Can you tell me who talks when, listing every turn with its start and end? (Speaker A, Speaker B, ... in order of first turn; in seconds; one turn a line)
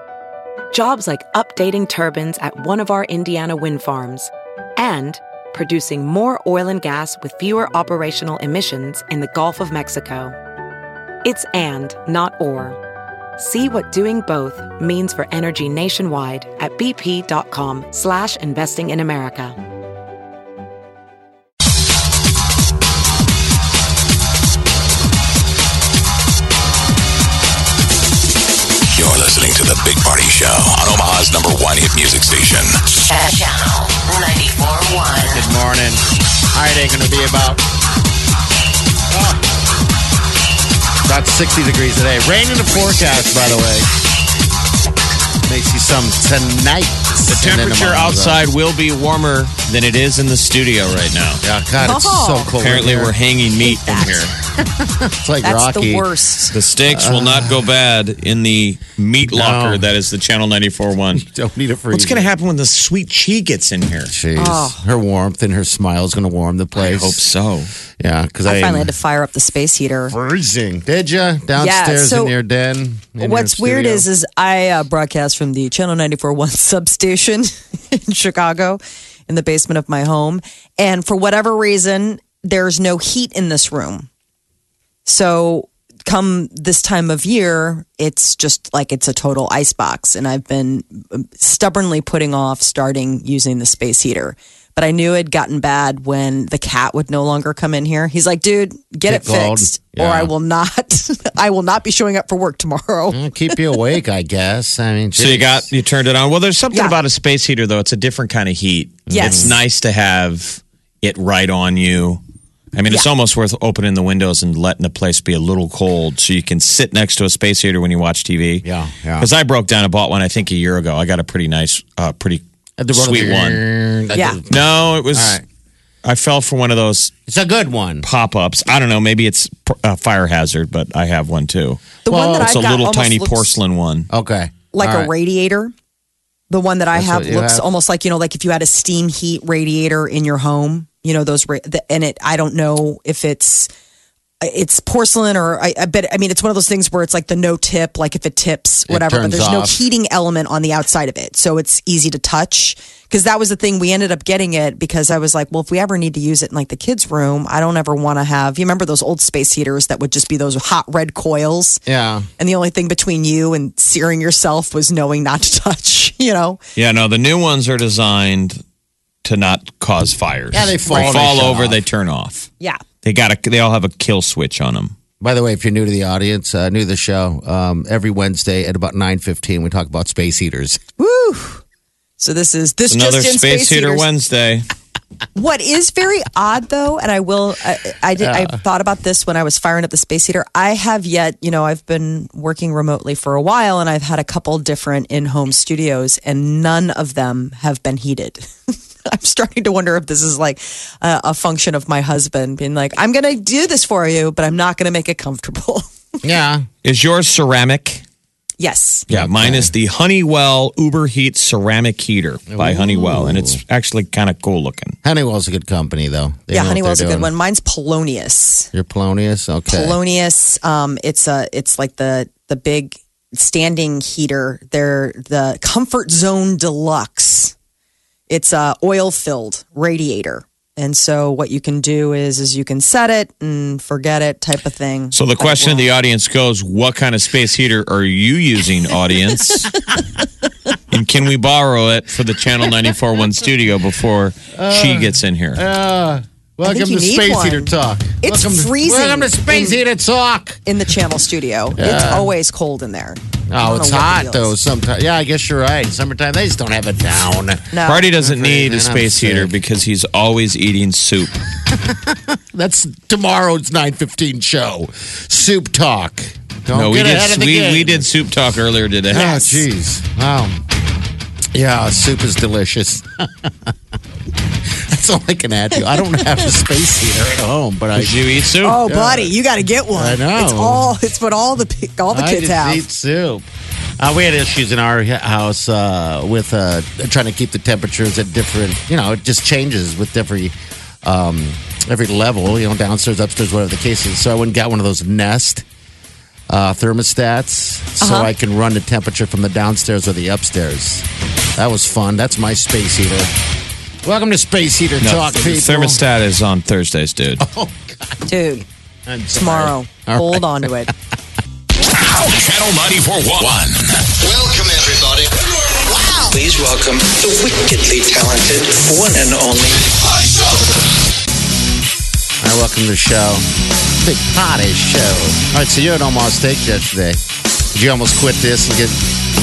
Speaker A: 0.7-10.3
Speaker A: 11.2-12.8
Speaker A: 13.4-19.6
Speaker B: 28.9-32.8
Speaker C: 33.1-35.4
Speaker D: 35.2-36.0
Speaker D: 36.5-37.6
Speaker D: 39.1-39.4
Speaker D: 41.0-43.9
Speaker D: 45.5-48.4
Speaker E: 47.3-51.4
Speaker D: 51.4-53.1
Speaker F: 51.8-52.5
Speaker E: 52.6-54.3
Speaker F: 53.5-54.3
Speaker D: 54.6-56.1
Speaker F: 55.4-56.5
Speaker E: 56.5-61.2
Speaker D: 56.9-57.7
Speaker D: 59.3-59.9
Speaker D: 61.1-62.3
Speaker E: 61.9-64.1
Speaker D: 64.1-67.2
Speaker F: 64.3-64.8
Speaker E: 66.7-67.7
Speaker D: 68.0-68.9
Speaker F: 68.4-70.2
Speaker D: 70.1-74.1
Speaker F: 71.5-72.3
Speaker F: 73.2-84.1
Speaker F: 85.0-103.2
Speaker D: 99.1-100.3
Speaker D: 103.1-105.7
Speaker E: 105.2-112.2
Speaker F: 106.7-107.0
Speaker F: 109.1-109.6
Speaker D: 109.1-109.6
Speaker E: 112.7-118.7
Speaker D: 118.6-119.3
Speaker E: 119.2-123.6
Speaker D: 122.8-125.4
Speaker F: 124.1-124.4
Speaker E: 124.5-125.4
Speaker E: 126.0-127.1
Speaker D: 127.3-128.1
Speaker E: 128.0-134.1
Speaker F: 132.0-133.5
Speaker D: 132.1-132.6
Speaker D: 134.1-135.1
Speaker F: 134.7-135.7
Speaker F: 136.5-143.7
Speaker D: 136.9-137.7
Speaker F: 144.4-161.8
Speaker D: 148.9-149.8
Speaker D: 161.9-162.3
Speaker F: 162.4-166.6
Speaker E: 166.8-168.6
Speaker E: 169.2-172.5
Speaker D: 170.5-171.8
Speaker E: 173.0-174.9
Speaker D: 175.2-180.8
Speaker F: 181.0-181.6
Speaker F: 182.2-184.1
Speaker E: 182.9-184.7
Speaker F: 185.3-205.8
Speaker D: 188.2-188.6
Speaker D: 206.2-206.7
Speaker E: 206.8-208.0
Speaker F: 208.6-209.1
Speaker E: 209.1-214.9
Speaker D: 209.1-209.7
Speaker D: 212.5-213.6
Speaker D: 215.0-217.3
Speaker F: 216.5-218.7
Speaker D: 218.7-220.0
Speaker F: 219.7-227.5
Speaker F: 228.3-235.8
Speaker E: 235.1-239.8
Speaker E: 240.9-245.6
Speaker D: 244.5-250.6
Speaker F: 246.6-249.8
Speaker F: 250.6-254.5
Speaker D: 251.8-252.3
Speaker D: 253.5-259.5
Speaker F: 257.7-258.1
Speaker E: 257.8-261.4
Speaker D: 261.7-268.1
Speaker E: 266.7-269.6
Speaker D: 269.1-270.6
Speaker D: 271.5-273.7
Speaker D: 274.8-278.2
Speaker F: 275.8-276.5
Speaker E: 277.9-278.8
Speaker F: 278.6-282.8
Speaker D: 278.8-279.3
Speaker D: 279.9-280.9
Speaker D: 282.1-283.5
Speaker D: 284.0-295.6
Speaker D: 296.5-301.0
Speaker F: 298.0-298.3
Speaker D: 301.6-303.3
Speaker D: 304.0-306.0
Speaker E: 305.0-307.4
Speaker D: 307.4-308.2
Speaker F: 308.3-308.6
Speaker D: 309.1-310.7
Speaker F: 309.3-310.9
Speaker B: 312.0-313.9
Speaker G: 314.3-315.2
Speaker G: 316.3-319.9
Speaker D: 322.4-323.4
Speaker D: 324.0-327.2
Speaker D: 327.7-329.0